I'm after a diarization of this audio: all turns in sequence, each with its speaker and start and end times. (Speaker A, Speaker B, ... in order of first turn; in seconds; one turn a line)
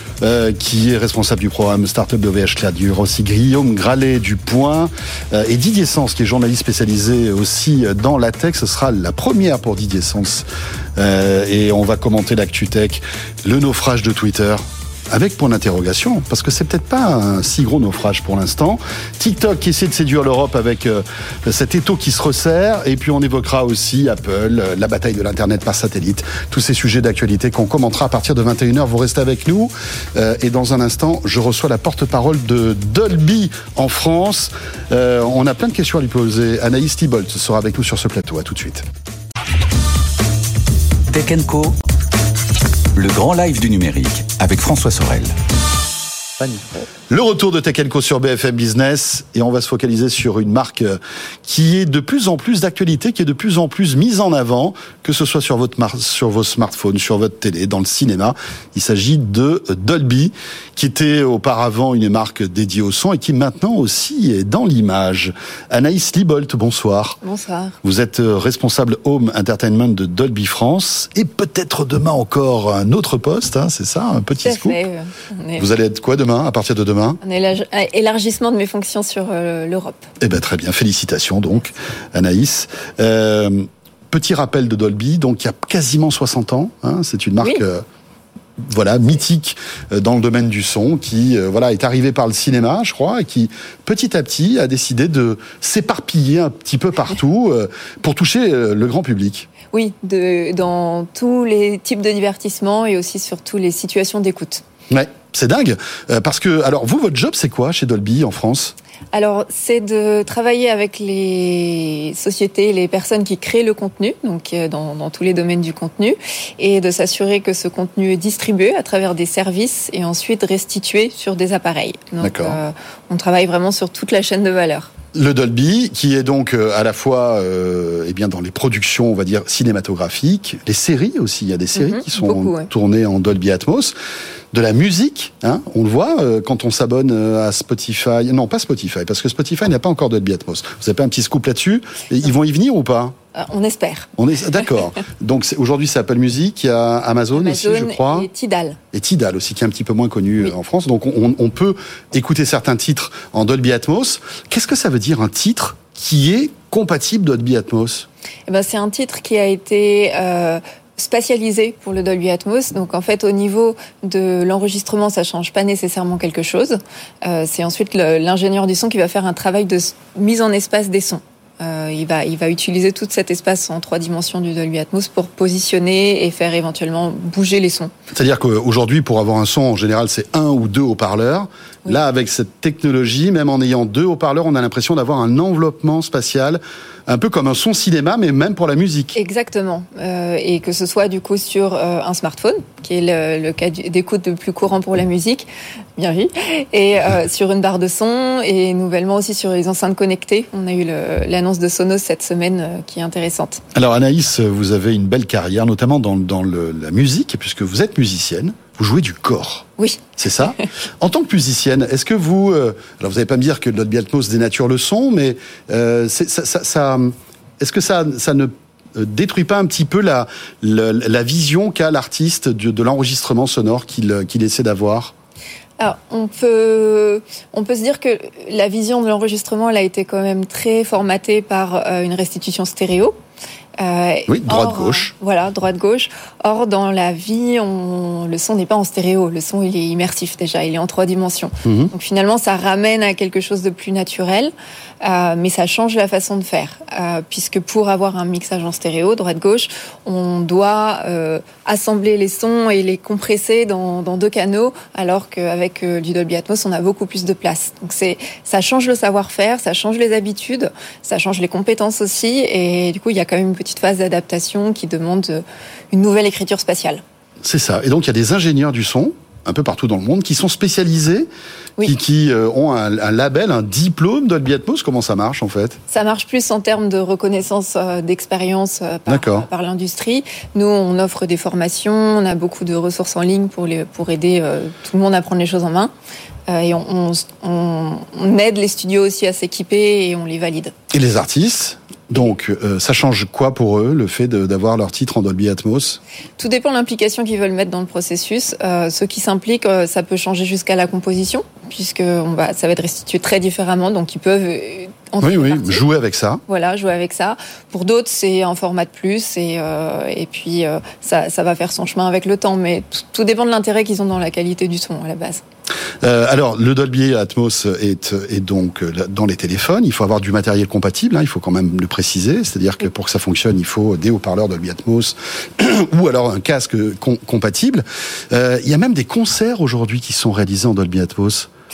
Speaker A: 0.2-38.9
Speaker B: 41.1-41.8
Speaker B: 43.0-45.3
Speaker A: 47.1-67.2
Speaker C: 67.2-67.8
Speaker A: 67.8-74.8
Speaker C: 74.4-75.7
Speaker A: 75.6-77.2
Speaker C: 77.2-80.1
Speaker A: 80.2-87.8
Speaker A: 88.6-99.5
Speaker C: 99.7-104.6
Speaker A: 104.9-108.7
Speaker C: 109.1-124.9
Speaker A: 122.2-122.6
Speaker A: 125.1-133.9
Speaker C: 131.8-132.7
Speaker A: 134.5-143.1
Speaker C: 143.3-144.1
Speaker A: 144.2-148.3
Speaker C: 147.3-148.8
Speaker A: 148.9-158.1
Speaker C: 158.5-177.9
Speaker A: 178.1-189.2
Speaker C: 189.1-203.6
Speaker A: 203.7-209.7
Speaker C: 209.8-210.6
Speaker A: 210.2-225.1
Speaker C: 225.8-233.2
Speaker C: 233.8-267.0
Speaker A: 234.3-235.1
Speaker A: 241.6-241.9
Speaker A: 267.4-271.3
Speaker A: 271.8-275.8
Speaker C: 275.9-285.9
Speaker A: 279.1-279.5
Speaker C: 286.5-290.7
Speaker A: 290.9-296.0
Speaker C: 296.4-305.8
Speaker A: 305.2-306.4
Speaker C: 306.5-315.4
Speaker A: 316.0-331.5